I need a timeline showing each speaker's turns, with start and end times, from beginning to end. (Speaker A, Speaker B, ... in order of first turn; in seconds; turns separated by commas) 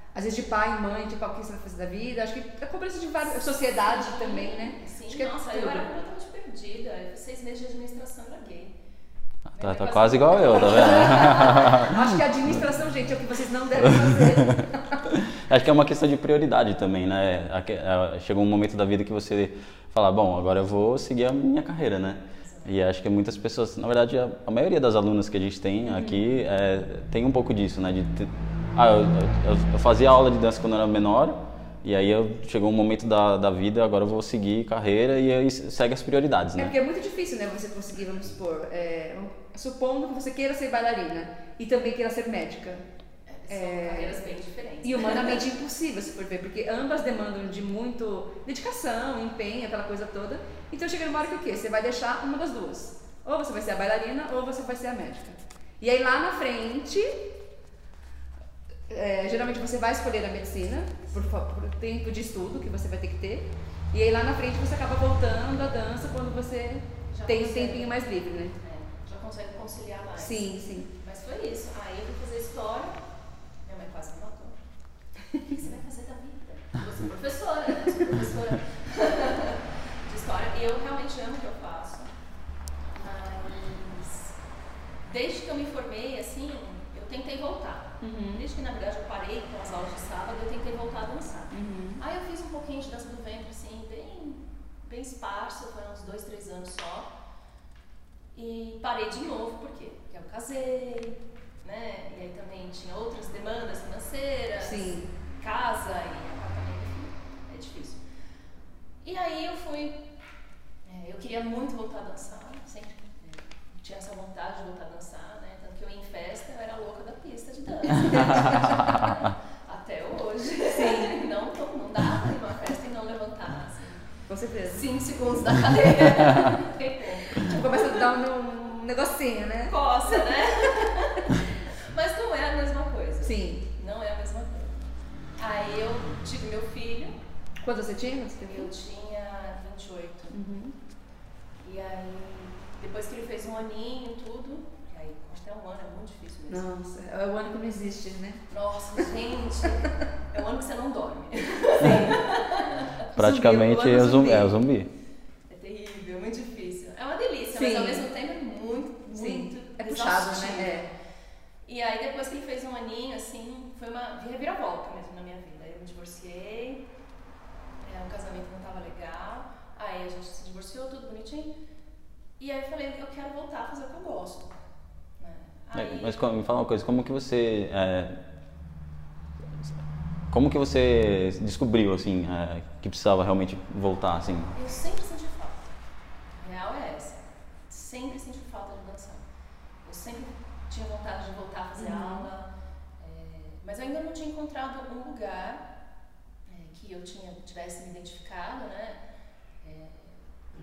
Speaker A: 0.1-5.9, Speaker B: 3.4-8.8, Speaker C: 9.5-12.2, Speaker B: 9.6-11.3, Speaker A: 10.5-15.1, Speaker C: 14.0-36.8, Speaker B: 22.4-22.8, Speaker A: 25.9-26.2, Speaker A: 36.6-42.9, Speaker B: 43.3-45.5, Speaker A: 43.5-44.2, Speaker A: 44.8-57.3, Speaker A: 58.9-68.6, Speaker B: 67.1-68.0, Speaker B: 68.6-73.0, Speaker A: 70.2-70.9, Speaker B: 73.7-74.6, Speaker B: 75.5-82.1, Speaker B: 83.0-84.3, Speaker B: 85.0-97.1, Speaker A: 88.0-88.4, Speaker A: 91.5-92.0, Speaker B: 98.3-108.0, Speaker A: 104.6-105.1, Speaker B: 109.0-110.0, Speaker B: 110.8-124.0, Speaker A: 118.1-119.0, Speaker A: 120.7-121.1, Speaker A: 124.3-124.8, Speaker B: 124.6-128.1, Speaker A: 127.4-130.9, Speaker B: 129.7-134.8, Speaker A: 133.2-133.6, Speaker B: 135.4-137.2, Speaker A: 137.6-138.7, Speaker B: 138.4-140.4, Speaker A: 140.3-140.8, Speaker B: 141.6-146.7, Speaker A: 146.5-148.4, Speaker B: 148.5-152.9, Speaker A: 151.8-154.6, Speaker C: 153.1-154.9, Speaker B: 155.5-160.8, Speaker A: 157.5-158.1, Speaker A: 159.1-160.9, Speaker B: 161.7-166.8, Speaker B: 167.8-171.5, Speaker B: 172.4-174.6, Speaker B: 175.2-176.2, Speaker C: 175.7-178.2, Speaker C: 180.3-184.5, Speaker B: 184.5-185.8, Speaker B: 186.4-189.3, Speaker B: 189.8-195.6, Speaker A: 191.8-192.3, Speaker B: 196.5-199.0, Speaker B: 199.6-200.2